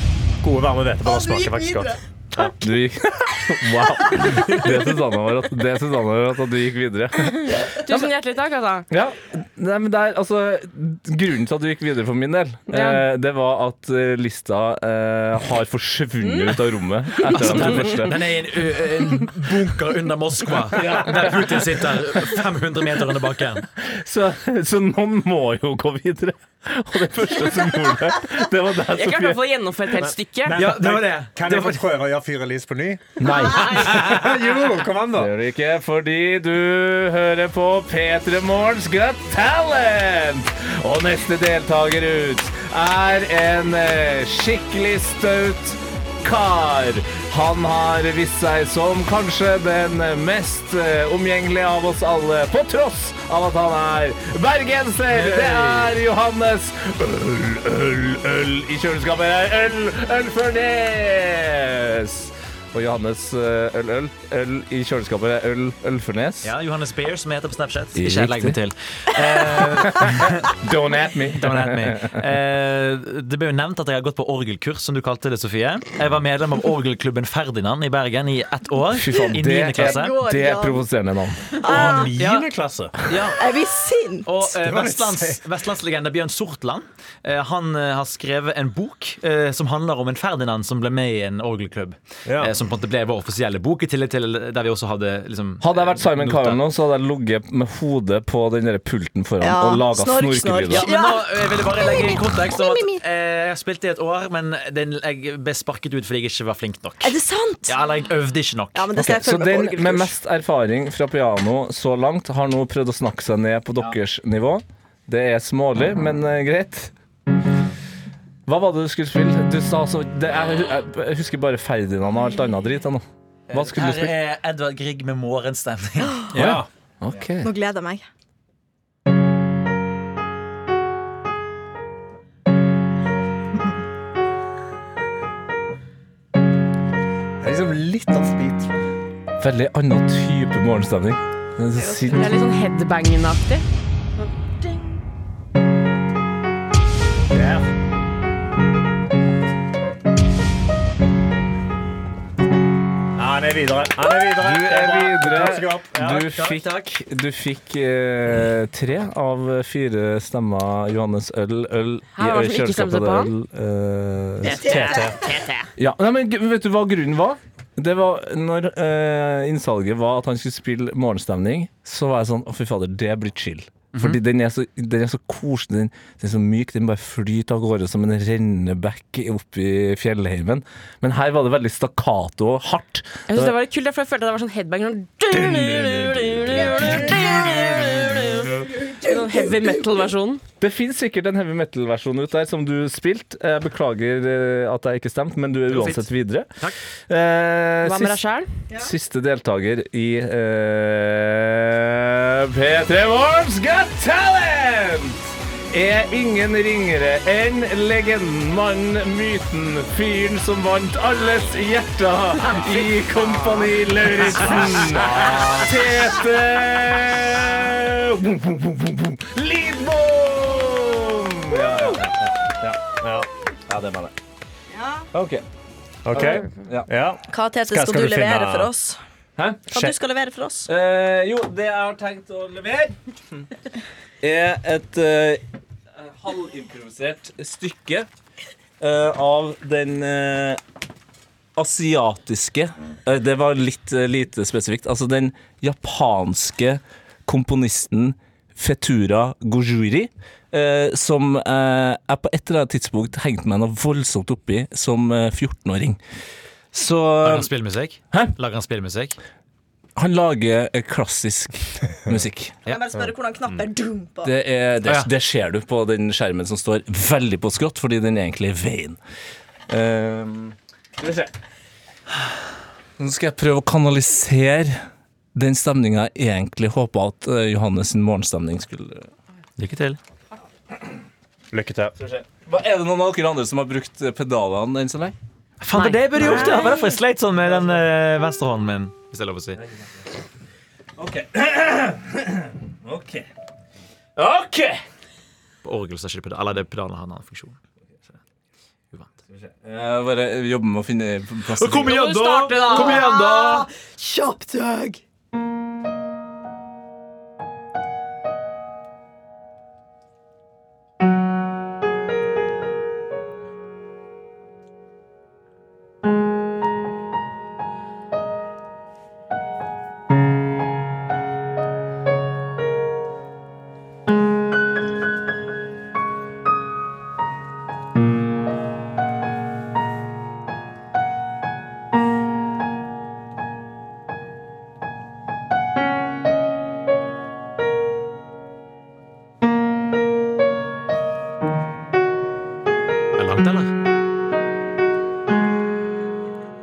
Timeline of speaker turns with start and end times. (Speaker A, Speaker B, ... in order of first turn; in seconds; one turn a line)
Speaker A: 0.4-2.5
Speaker B: 1.0-2.0
Speaker C: 2.6-8.1
Speaker D: 7.4-8.9
Speaker C: 8.9-18.2
Speaker D: 12.7-13.0
Speaker D: 16.2-16.5
Speaker E: 17.3-23.6
Speaker C: 20.7-21.7
Speaker C: 23.8-29.4
Speaker D: 28.9-30.6
Speaker A: 30.0-35.3
Speaker E: 30.6-31.9
Speaker C: 33.2-34.1
Speaker D: 33.3-34.0
Speaker C: 35.1-66.5
Speaker E: 55.1-55.9
Speaker E: 66.4-70.5
Speaker C: 68.0-68.6
Speaker C: 69.6-72.2
Speaker E: 71.3-80.2
Speaker C: 78.9-81.5
Speaker B: 79.8-80.8
Speaker B: 81.5-82.2
Speaker A: 81.6-83.0
Speaker E: 81.8-82.5
Speaker E: 83.0-83.5
Speaker B: 83.3-84.4
Speaker E: 84.2-96.6
Speaker A: 84.6-85.4
Speaker A: 92.2-92.5
Speaker C: 95.6-100.9
Speaker B: 99.4-103.0
Speaker E: 100.7-108.9
Speaker B: 107.0-107.8
Speaker B: 108.7-110.1
Speaker C: 109.0-116.9
Speaker C: 118.5-124.2
Speaker E: 123.5-126.5
Speaker B: 126.0-126.3
Speaker C: 126.3-127.5
Speaker A: 126.3-126.7
Speaker B: 127.4-128.0
Speaker A: 137.4-138.7
Speaker C: 139.4-142.3
Speaker D: 141.7-143.6
Speaker A: 147.3-147.7
Speaker A: 153.2-156.6
Speaker C: 154.4-165.1
Speaker D: 162.2-163.3
Speaker D: 164.4-165.7
Speaker B: 164.5-165.1
Speaker A: 164.8-165.2
Speaker C: 165.8-183.5
Speaker E: 173.9-174.2
Speaker D: 183.3-190.4
Speaker C: 185.3-187.2
Speaker B: 186.7-188.0
Speaker B: 188.6-189.8
Speaker C: 190.6-198.2
Speaker E: 195.7-196.1
Speaker D: 197.8-198.5
Speaker C: 198.7-222.9
Speaker A: 223.0-223.3
Speaker C: 223.7-224.1
Speaker B: 224.7-225.1
Speaker C: 225.1-225.4
Speaker A: 226.0-228.7
Speaker C: 226.1-226.9
Speaker B: 227.3-229.0
Speaker C: 229.4-229.9
Speaker B: 229.7-230.7
Speaker C: 230.7-233.0
Speaker C: 234.2-235.4
Speaker C: 235.9-238.1
Speaker C: 238.8-240.6
Speaker C: 241.6-256.0
Speaker C: 256.7-257.5
Speaker E: 257.2-259.2
Speaker C: 259.9-262.6
Speaker B: 262.6-264.3
Speaker C: 264.2-269.0
Speaker C: 269.7-271.3
Speaker C: 273.0-279.1
Speaker E: 279.6-280.0
Speaker A: 281.5-281.9
Speaker C: 282.0-285.1
Speaker E: 285.6-289.6
Speaker D: 285.7-286.9
Speaker B: 286.2-286.8
Speaker C: 289.5-289.9
Speaker C: 291.0-293.3
Speaker C: 294.1-294.8
Speaker E: 295.6-297.6
Speaker C: 299.3-302.0
Speaker E: 301.5-303.7
Speaker D: 301.9-303.1
Speaker B: 302.7-305.0
Speaker E: 343.1-343.7